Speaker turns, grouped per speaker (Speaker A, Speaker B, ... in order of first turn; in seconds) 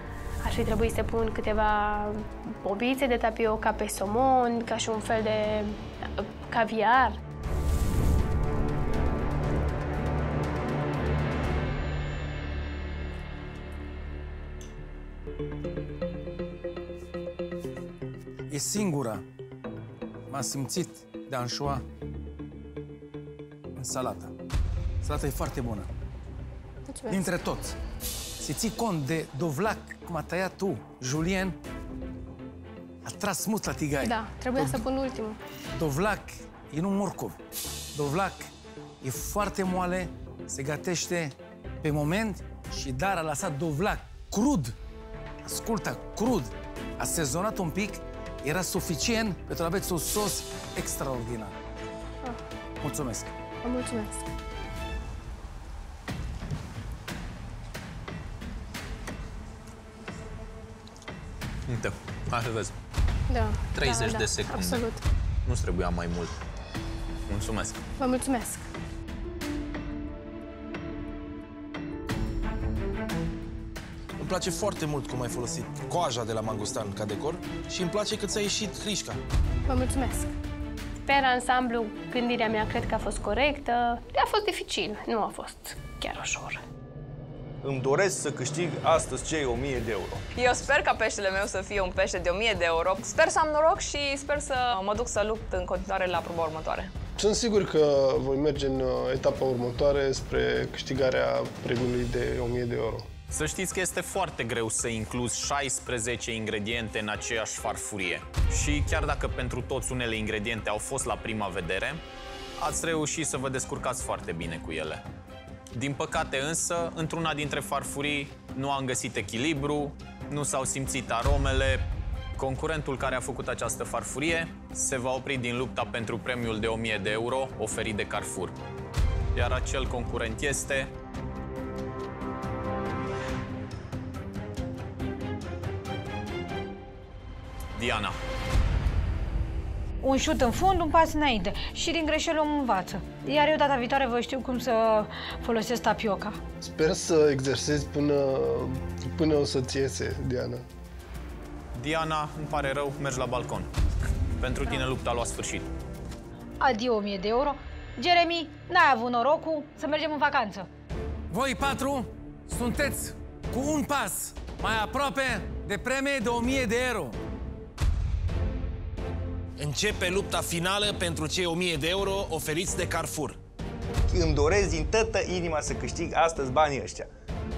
Speaker A: 0.4-7.2, 26.9-27.2, 34.0-35.4, 53.6-54.2, 63.3-65.0, 68.0-68.7, 79.7-80.3, 81.0-86.6
Speaker B: 18.5-19.2, 20.3-21.8, 23.8-24.3, 25.0-25.9, 27.1-27.8, 28.4-31.6, 33.0-34.8, 35.7-37.4, 37.9-38.5, 39.0-44.7, 45.4-51.5, 52.8-53.3, 161.3-167.2
Speaker C: 61.7-62.7, 63.7-64.8, 65.5-66.3, 67.3-67.8, 103.3-112.0, 112.6-115.0, 115.7-128.5, 129.3-130.9, 137.8-138.1, 151.8-153.7, 154.4-155.7
Speaker D: 74.2-79.2, 169.6-173.4
Speaker E: 87.6-90.2, 174.1-177.1
Speaker F: 90.3-96.9
Speaker G: 97.2-103.1, 146.6-150.6
Speaker H: 140.0-146.4, 156.6-160.7